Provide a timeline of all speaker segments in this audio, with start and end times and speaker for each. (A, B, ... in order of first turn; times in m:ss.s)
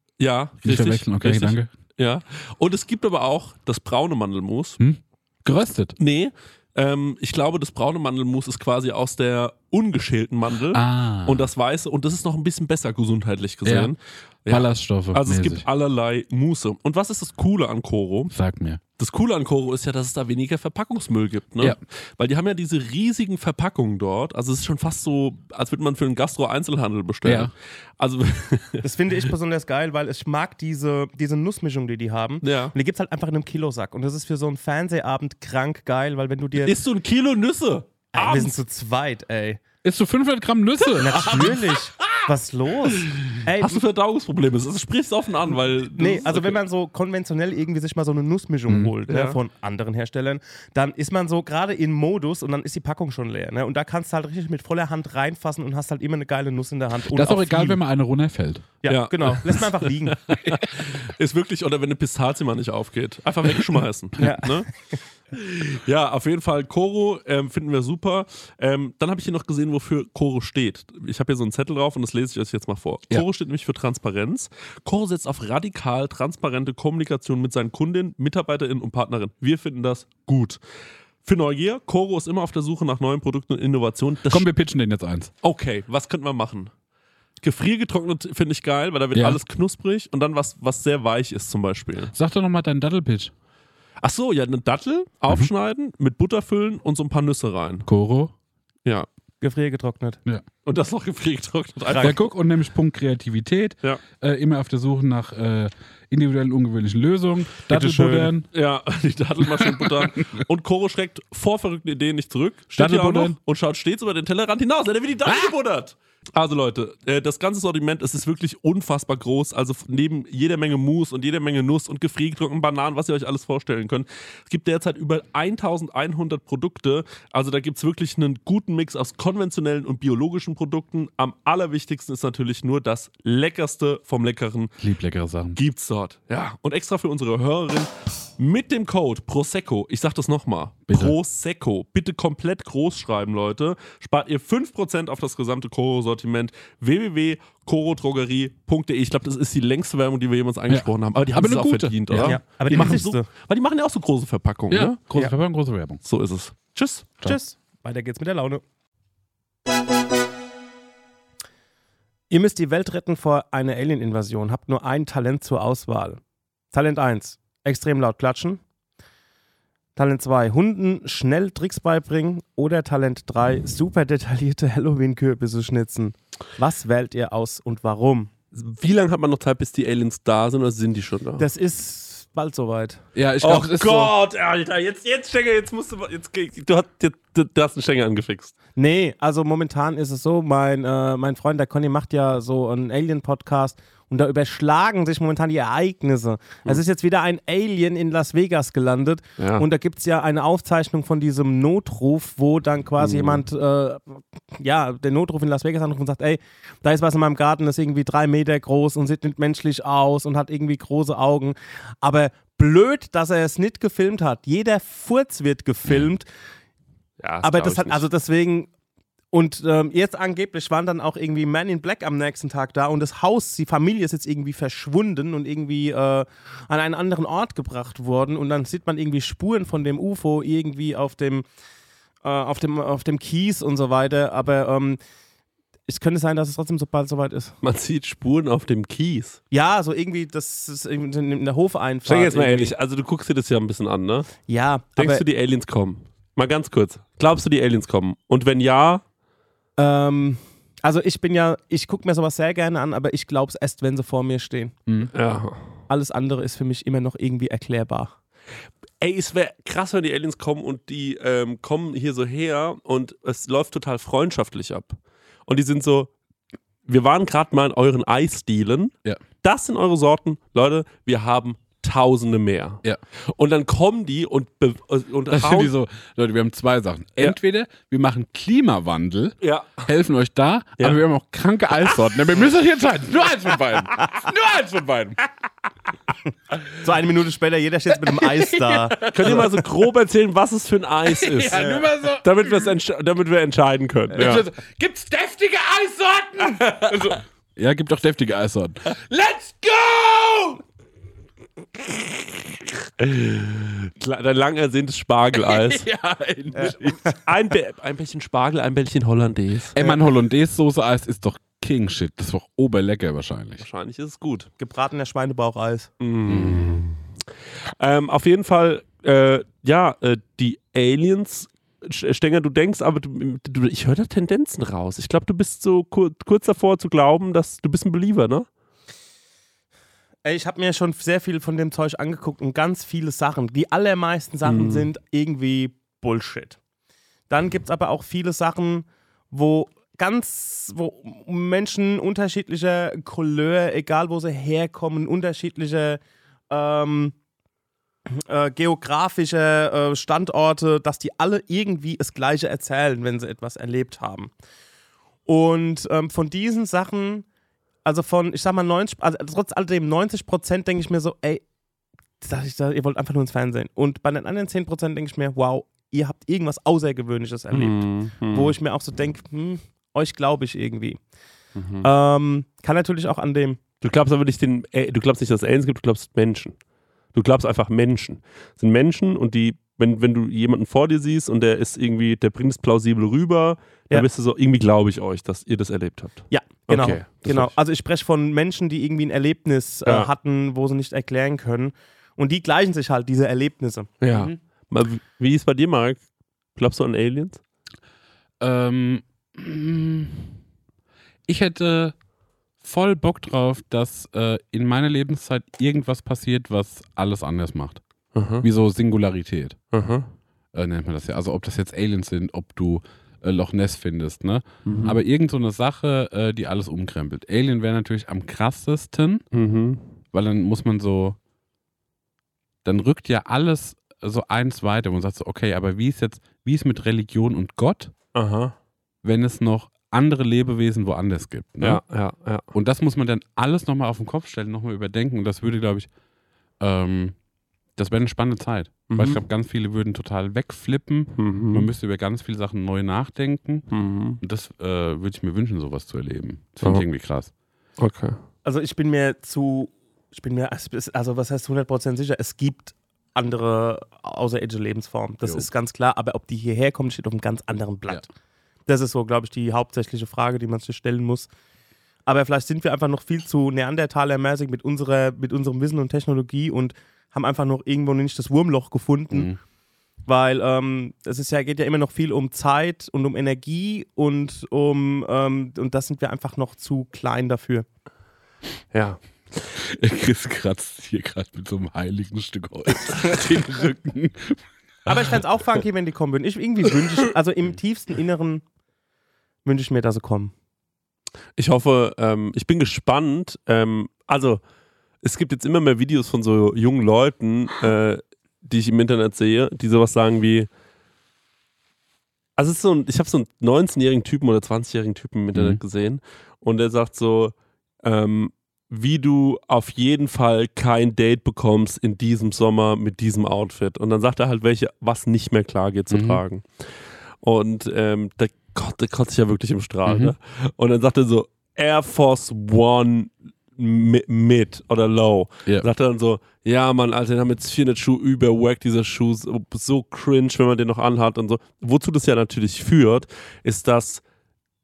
0:00.2-0:04.8 A
0:00.6-0:01.7 B
0:04.8-0:06.0 B
0:06.0-0:18.3 A
0:10.7-0:11.5 B
0:13.6-0:13.9 B
0:14.5-0:15.6 B
0:18.3-0:18.8 B
0:19.0-0:28.8 A
0:27.2-0:27.5 B
0:28.8-0:36.8 C
0:32.4-0:32.7 A
0:36.6-0:38.6 A
0:38.1-0:39.6 C
0:39.8-0:41.6 B
0:41.0-0:43.8 C
0:43.3-0:46.6 A
0:46.0-0:57.8 C
0:48.7-0:48.9 B
0:49.1-0:49.4 A
0:57.1-0:58.7 B
0:58.8-1:00.2 C
0:58.9-1:04.7 A
1:00.3-1:00.6 B
1:04.2-1:04.6 C
1:05.3-1:20.6 A
1:21.2-1:24.5 A
1:24.3-1:25.3 B
1:25.4-1:26.7 A
1:27.4-1:32.1 A
1:29.2-1:29.4 B
1:32.1-1:33.3 B
1:34.0-1:37.9 A
1:37.9-1:38.3 B
1:39.4-1:40.2 C
1:40.6-1:42.2 A
1:42.0-1:48.5 B
1:47.8-2:14.8 A
1:49.4-1:50.4 B
1:52.8-1:53.4 B
1:55.3-1:55.5 B
2:14.8-2:15.6 B
2:15.6-2:35.0 A
2:20.9-2:21.2 B
2:30.7-2:33.1 B
2:32.2-2:33.3 C
2:34.7-2:36.0 B
2:36.0-2:37.1 A
2:37.2-2:38.6 C
2:42.3-2:46.2 C
2:46.7-2:48.6 C
2:50.0-2:58.3 C
2:58.5-3:01.5 A
3:01.4-3:03.0 C
3:03.2-3:04.1 B
3:03.4-3:08.6 A
3:08.8-3:36.3 C
3:19.4-3:19.6 A
3:23.0-3:23.4 A
3:37.2-3:38.0 A
3:37.4-3:38.7 C
3:39.3-3:51.4 C
3:52.2-3:55.0 C
3:55.9-3:57.6 C
3:57.6-3:59.4 A
3:59.5-4:02.8 C
4:02.0-4:09.0 A
4:04.5-4:05.2 C
4:09.8-4:14.8 C
4:15.1-4:15.6 A
4:15.9-4:18.1 C
4:19.0-4:26.1 A
4:26.9-4:35.7 A
4:35.3-4:45.2 B
4:39.4-4:39.9 A
4:46.8-4:49.4 C
4:48.1-4:49.6 B
4:49.1-4:54.5 A
4:51.1-4:52.7 B
4:51.5-4:51.8 C
4:54.1-5:00.6 B
5:03.0-5:05.9 A
5:05.3-5:07.1 B
5:06.9-5:09.7 A
5:09.7-5:13.6 B
5:13.6-5:14.5 A
5:14.6-5:15.9 C
5:16.0-5:17.0 A
5:16.3-5:16.7 B
5:17.8-5:28.5 A
5:30.2-5:36.6 C
5:34.4-5:34.9 A
5:37.3-5:47.2 C
5:48.1-5:54.3 C
5:55.3-5:57.3 C
5:57.8-6:01.4 C
6:02.2-6:11.0 C
6:07.5-6:08.5 A
6:11.6-6:11.9 A
6:11.8-6:13.6 C
6:13.8-6:16.6 A
6:17.1-6:27.5 A
6:26.3-6:33.9 C
6:34.0-6:36.0 A
6:34.1-6:34.4 B
6:36.6-6:37.4 A
6:38.4-6:40.4 B
6:41.3-6:42.0 B
6:42.6-6:47.8 B
6:48.2-6:48.5 A
6:48.4-6:49.6 B
6:49.7-6:50.1 A
6:50.5-6:59.2 B
6:54.6-6:55.0 A
6:59.3-6:59.8 A
7:00.1-7:01.2 B
7:02.6-7:07.9 B
7:08.1-7:08.6 A
7:09.0-7:11.8 B
7:11.6-7:12.5 A
7:12.5-7:15.9 B
7:16.6-7:17.2 B
7:17.8-7:23.7 B
7:18.9-7:19.2 A
7:21.2-7:21.7 A
7:23.7-7:24.2 A
7:24.2-7:27.3 B
7:27.8-7:28.2 A
7:28.4-7:38.1 C
7:38.7-7:41.3 C
7:42.1-7:49.3 C
7:49.1-7:49.4 B
7:50.0-7:57.7 C
7:58.7-7:59.0 A
7:59.6-8:04.9 B
8:04.9-8:08.4 C
8:09.4-8:10.3 C
8:11.4-8:14.4 A
8:15.0-8:20.5 A
8:22.4-8:54.0 A
8:25.3-8:25.6 B
8:35.9-8:36.2 B
8:39.9-8:40.1 B